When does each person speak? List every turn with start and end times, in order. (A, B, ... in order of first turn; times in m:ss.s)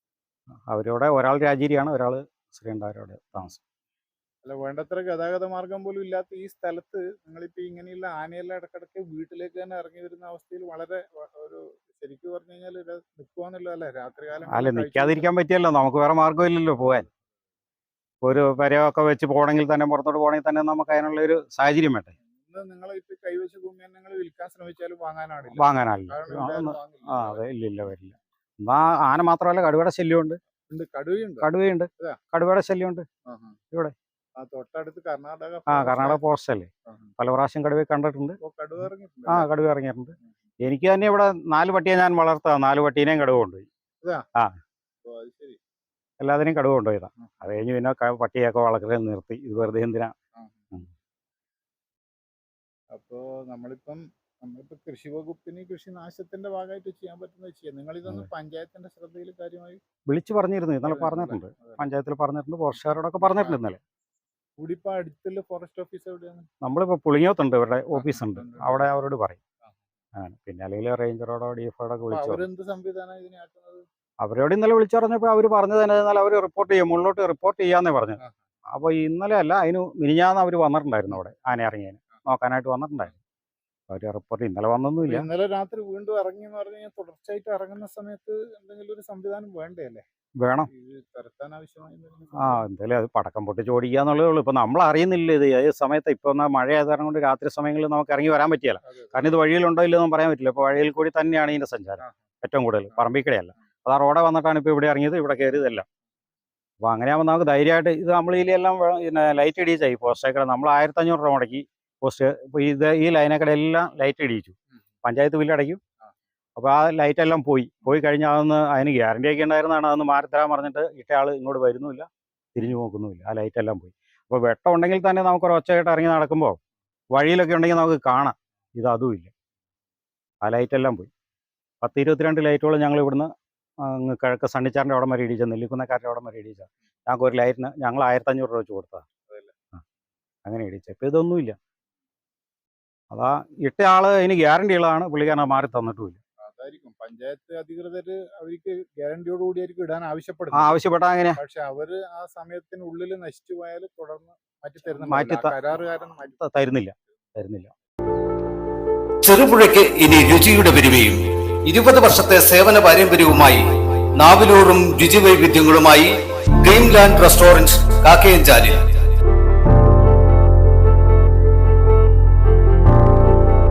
0:00.7-0:03.6 A
0:04.4-0:15.3 B
0:14.5-0:17.1 A
0:18.2-0:22.1 A
0:22.4-0:27.4 B
0:25.6-0:30.4 A
0:30.7-0:32.2 B
0:31.4-0:33.1 A
0:33.3-0:33.6 B
0:34.4-0:36.2 B
0:35.7-0:38.4 A
0:38.4-0:39.5 B
0:39.3-0:43.7 A
0:45.0-0:45.6 B
0:46.2-0:50.1 A
0:52.9-0:59.8 B
1:00.1-1:03.8 A
1:00.8-1:01.9 B
1:03.2-1:03.6 B
1:04.6-1:06.5 B
1:06.6-1:09.4 A
1:07.9-1:08.9 B
1:10.2-1:12.4 A
1:12.1-1:13.8 B
1:14.2-1:18.2 A
1:18.7-1:23.1 A
1:23.9-1:25.2 A
1:25.0-1:30.0 B
1:30.4-1:30.7 A
1:30.7-1:32.6 B
1:32.4-1:45.9 A
1:38.8-1:39.4 B
1:46.8-1:55.8 A
1:56.6-2:06.6 A
2:07.1-2:09.3 A
2:10.4-2:11.1 A
2:11.8-2:19.0 A
2:19.3-2:19.5 B
2:20.4-2:21.6 A
2:23.1-2:26.2 A
2:26.4-2:30.8 B
2:30.5-2:31.4 A
2:31.4-2:36.4 B
2:35.0-2:35.5 A
2:36.4-2:37.7 A
2:39.2-2:48.9 C